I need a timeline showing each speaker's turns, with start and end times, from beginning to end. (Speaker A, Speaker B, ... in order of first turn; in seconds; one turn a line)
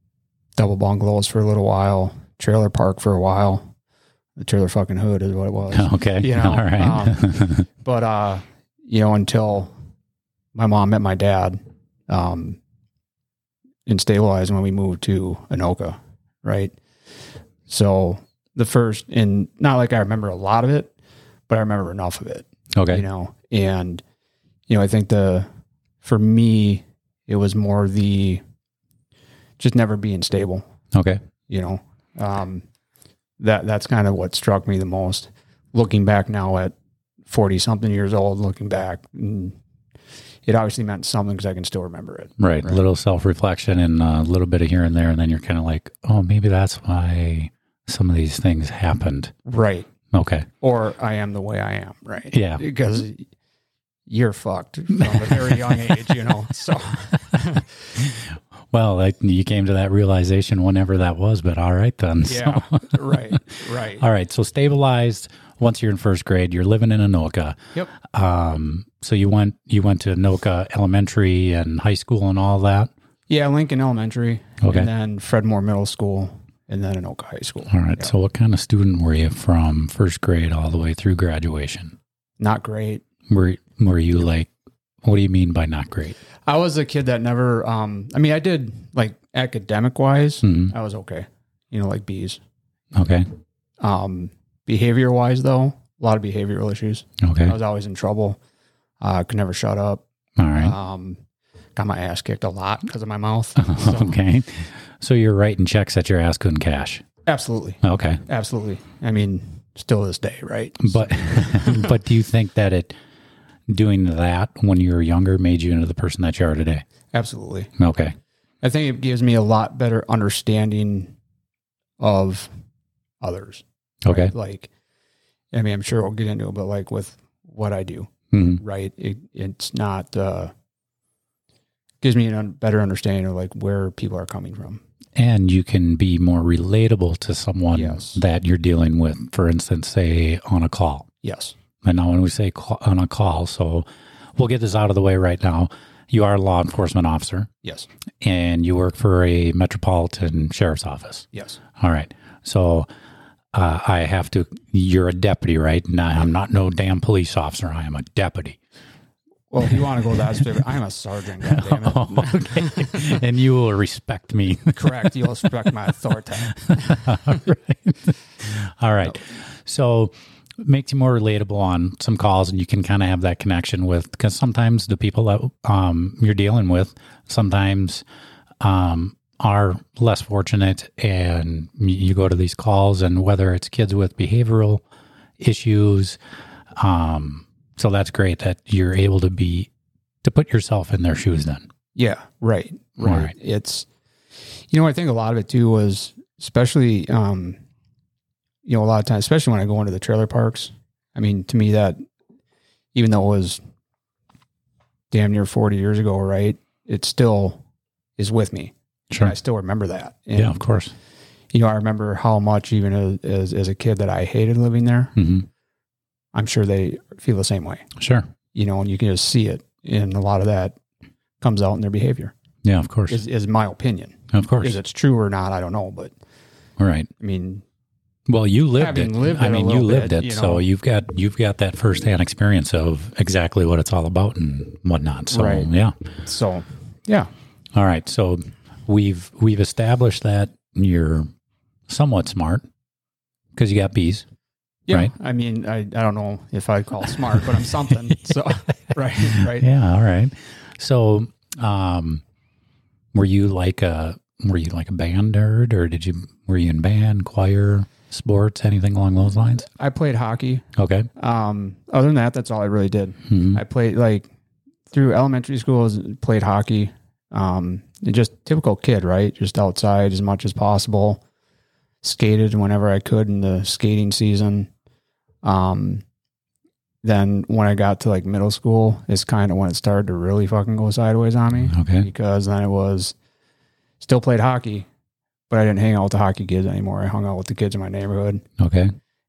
Speaker A: 0.6-3.7
Speaker A: 4.4-9.7
Speaker B: 5.7-7.7
Speaker A: 10.5-12.6
Speaker A: 13.8-16.7
Speaker A: 17.7-20.9
Speaker A: 21.5-24.0
Speaker B: 22.7-23.0
Speaker A: 24.7-25.5
Speaker A: 26.0-28.4
Speaker A: 29.6-30.6
Speaker B: 30.9-31.2
Speaker A: 31.5-32.6
Speaker A: 33.4-36.7
Speaker A: 37.2-39.5
Speaker A: 40.5-42.8
Speaker B: 42.4-49.3
Speaker A: 49.4-49.9
Speaker B: 50.1-50.5
Speaker A: 50.6-53.3
Speaker B: 52.3-52.6
Speaker A: 54.1-57.7
Speaker B: 55.0-55.9
Speaker B: 58.0-63.4
Speaker A: 62.2-64.0
Speaker B: 64.0-72.9
Speaker A: 73.3-78.1
Speaker B: 74.6-74.9
Speaker B: 77.7-82.0
Speaker A: 82.4-83.0
Speaker B: 83.3-84.5
Speaker B: 85.0-86.2
Speaker A: 86.5-92.4
Speaker B: 90.4-90.7
Speaker B: 92.9-93.3
Speaker A: 93.8-98.4
Speaker B: 97.2-97.5
Speaker A: 99.0-101.2
Speaker B: 100.4-100.7
Speaker A: 101.8-104.2
Speaker B: 103.6-107.0
Speaker A: 107.2-111.9
Speaker B: 107.8-108.2
Speaker B: 110.8-113.0
Speaker B: 113.7-116.8
Speaker A: 117.1-117.7
Speaker B: 117.8-118.1
Speaker A: 118.6-121.1
Speaker A: 122.0-122.5
Speaker A: 123.2-124.7
Speaker B: 124.0-124.3
Speaker A: 125.5-130.5
Speaker B: 128.3-128.6
Speaker A: 132.0-134.8
Speaker B: 135.1-141.1
Speaker A: 137.7-138.2
Speaker A: 141.2-141.5
Speaker B: 141.8-147.5
Speaker A: 147.6-147.9
Speaker B: 148.2-152.9
Speaker A: 151.3-151.6
Speaker B: 153.5-158.6
Speaker A: 159.5-163.1
Speaker B: 161.4-165.2
Speaker A: 164.7-167.1
Speaker B: 166.6-178.0
Speaker B: 178.6-184.8
Speaker B: 185.4-186.2
Speaker B: 186.8-189.7
Speaker B: 190.2-191.7
Speaker A: 191.9-193.9
Speaker B: 193.0-193.3
Speaker A: 194.7-197.6
Speaker A: 198.6-202.0
Speaker A: 202.9-203.6
Speaker A: 205.1-207.6
Speaker A: 208.2-210.6
Speaker B: 209.1-209.3
Speaker B: 210.3-210.9
Speaker A: 211.5-215.1
Speaker B: 215.2-215.5
Speaker A: 216.3-217.9
Speaker B: 218.0-218.2
Speaker A: 218.5-220.8
Speaker A: 221.4-222.3
Speaker B: 222.6-223.2
Speaker A: 223.1-226.1
Speaker B: 224.3-224.8
Speaker B: 226.8-227.1
Speaker A: 227.2-227.6
Speaker B: 228.3-235.9
Speaker A: 228.8-230.6
Speaker A: 235.3-235.7
Speaker A: 236.2-237.3
Speaker B: 237.7-241.3
Speaker B: 241.9-242.7
Speaker B: 243.5-244.2
Speaker A: 244.9-249.7
Speaker B: 247.9-248.4
Speaker B: 249.2-252.2
Speaker B: 253.1-259.7
Speaker A: 259.6-260.6
Speaker B: 260.8-261.1
Speaker A: 261.2-264.3
Speaker B: 263.3-263.6
Speaker A: 264.9-271.2
Speaker A: 272.0-274.7
Speaker A: 275.4-276.0
Speaker A: 277.0-283.1
Speaker B: 281.6-282.1
Speaker A: 284.0-284.9
Speaker A: 285.5-288.4
Speaker B: 288.6-288.9